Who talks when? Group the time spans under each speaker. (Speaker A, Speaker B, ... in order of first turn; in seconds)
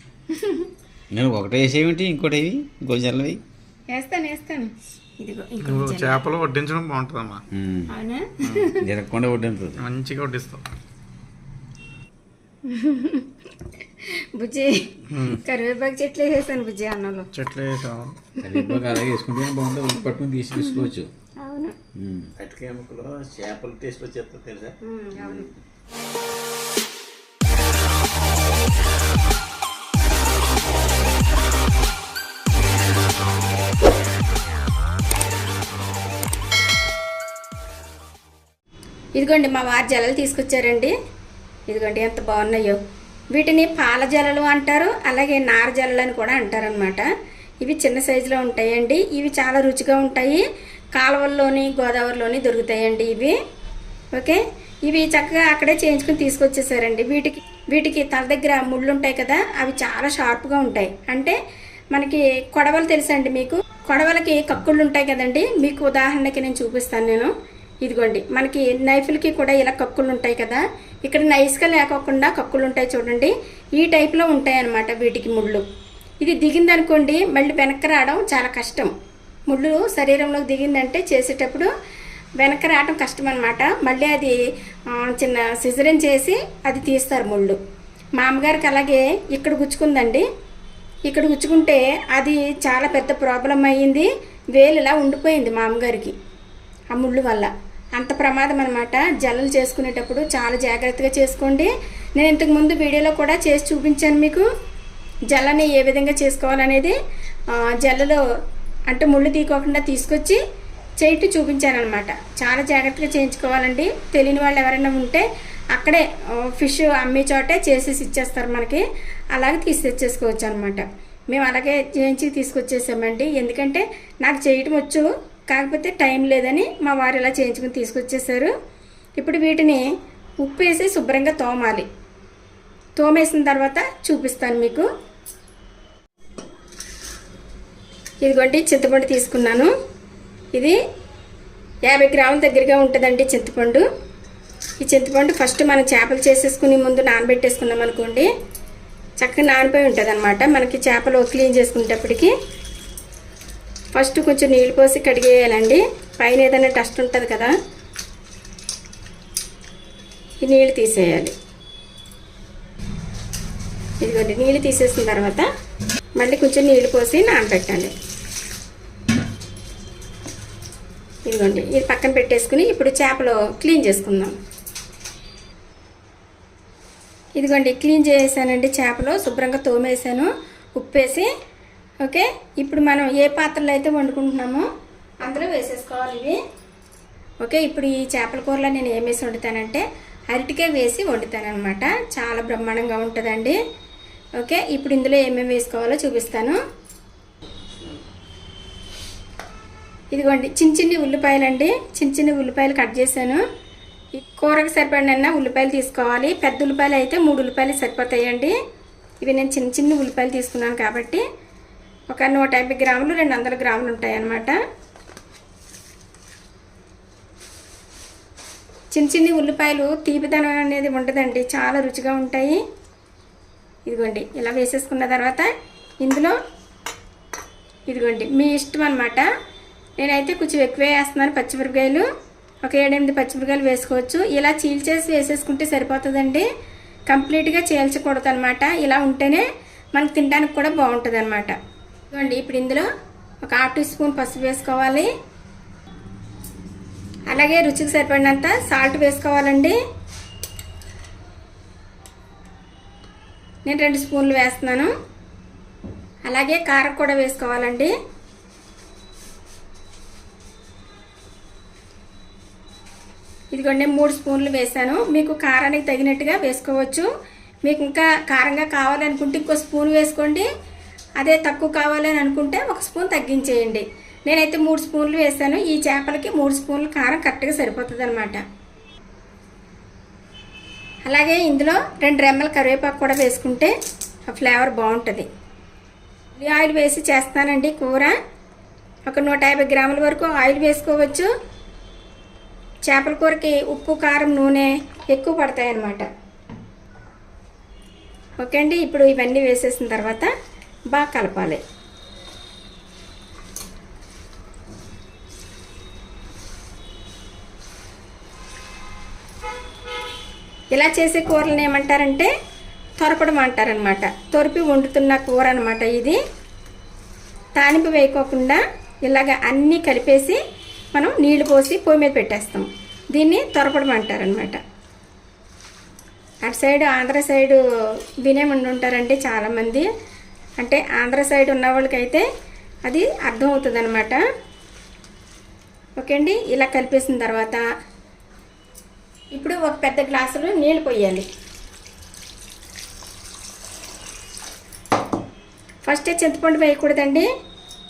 Speaker A: 0.3-0.7, 3.9-6.3, 7.9-8.8, 12.7-17.3, 18.4-19.0, 20.6-20.9, 21.4-21.7, 24.8-25.5, 39.2-40.9, 41.7-42.8, 43.3-47.0, 47.6-50.4, 51.0-53.3, 54.1-61.4, 61.9-67.3, 67.8-75.6, 76.2-78.9, 79.5-81.7, 82.4-84.3, 84.9-87.6, 88.2-90.2, 91.1-96.1, 96.9-104.5, 105.3-107.0, 107.5-108.2, 108.9-110.4, 111.0-118.8, 119.3-128.5, 129.2-129.8, 130.4-131.9, 133.0-134.9, 138.2-139.7, 141.9-143.8, 144.8-148.3, 149.2-152.3, 153.9-157.5, 160.4-161.3, 164.0-165.5, 166.2-167.9, 171.3-174.3, 177.4-181.3, 182.0-184.7, 185.2-186.4, 187.4-193.6, 194.4-196.6, 200.1-203.4, 204.1-208.5, 209.2-211.2, 212.1-214.6, 218.9-222.6, 223.9-225.5, 226.0-226.4, 227.9-229.3, 230.0-232.0, 232.6-236.5, 237.1-241.6, 242.1-242.9, 243.4-245.1, 247.3-249.8, 253.7-254.9, 256.2-257.9, 263.5-267.1, 267.6-270.4, 271.2-278.4, 281.1-283.7, 284.3-285.2, 286.4-288.1, 289.1-291.3, 292.9-296.1, 298.4-300.3, 300.9-301.6, 310.7-312.3, 313.0-316.2, 317.6-320.4, 320.9-324.6, 326.4-327.6, 328.2-329.9, 330.6-332.2, 332.9-334.2, 336.0-337.6, 339.3-341.3, 345.9-347.3
Speaker B: 1.1-3.4, 7.5-7.9, 8.8-9.8, 18.4-21.1, 21.9-25.5
Speaker C: 5.9-7.4, 9.8-10.6, 15.1-15.4, 17.3-18.1